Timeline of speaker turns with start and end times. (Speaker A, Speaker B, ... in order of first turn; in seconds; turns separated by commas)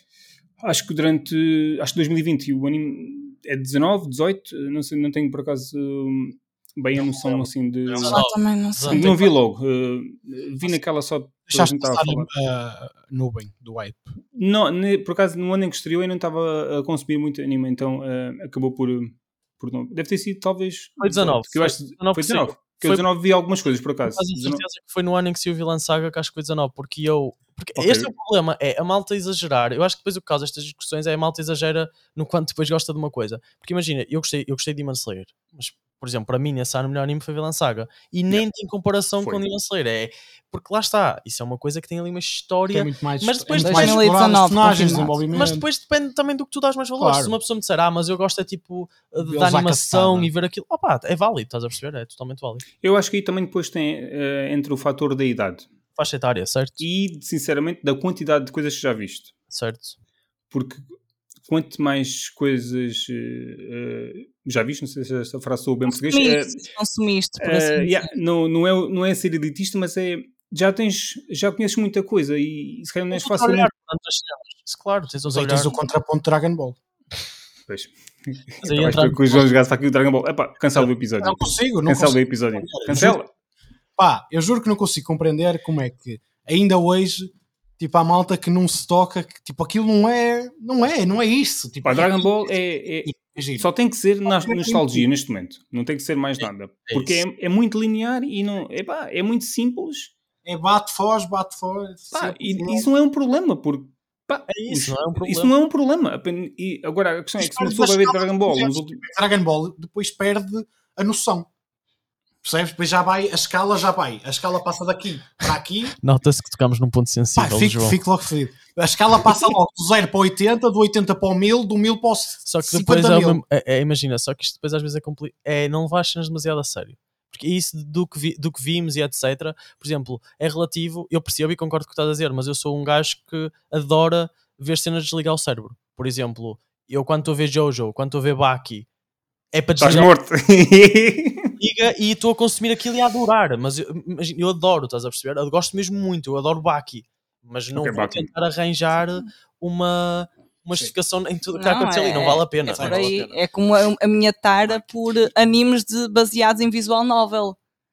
Speaker A: 0.6-8.2, Speaker B: 7.9-9.1, Speaker C: 8.1-9.3, Speaker A: 8.9-12.3, Speaker D: 11.5-14.1, Speaker A: 14.3-24.6, Speaker B: 21.0-23.1, Speaker B: 24.1-44.1, Speaker A: 27.8-28.1, Speaker A: 39.2-39.5, Speaker D: 42.7-45.7, Speaker C: 43.6-45.2, Speaker B: 45.3-52.6, Speaker D: 47.0-47.4, Speaker D: 49.2-50.3, Speaker A: 52.8-55.7, Speaker B: 56.0-56.8, Speaker A: 56.8-59.3, Speaker B: 59.5-60.0, Speaker A: 60.5-60.8, Speaker A: 61.5-66.7, Speaker C: 65.9-68.1, Speaker A: 67.4-73.7, Speaker B: 73.1-75.8, Speaker D: 75.3-76.8, Speaker A: 77.7-83.3, Speaker B: 78.6-79.5, Speaker D: 80.8-83.2, Speaker D: 84.0-92.5, Speaker A: 91.8-100.1, Speaker D: 93.0-93.7, Speaker D: 94.3-95.0, Speaker B: 96.4-97.2, Speaker D: 100.5-102.9, Speaker A: 102.1-109.0, Speaker B: 104.5-105.5, Speaker D: 107.4-111.5, Speaker D: 112.4-116.0, Speaker B: 116.0-118.0, Speaker D: 117.4-123.4, Speaker B: 122.5-138.9, Speaker B: 139.5-140.1, Speaker A: 139.8-141.6, Speaker B: 141.6-153.1, Speaker A: 147.7-148.3, Speaker C: 151.5-157.6, Speaker D: 152.8-153.1, Speaker A: 152.8-153.4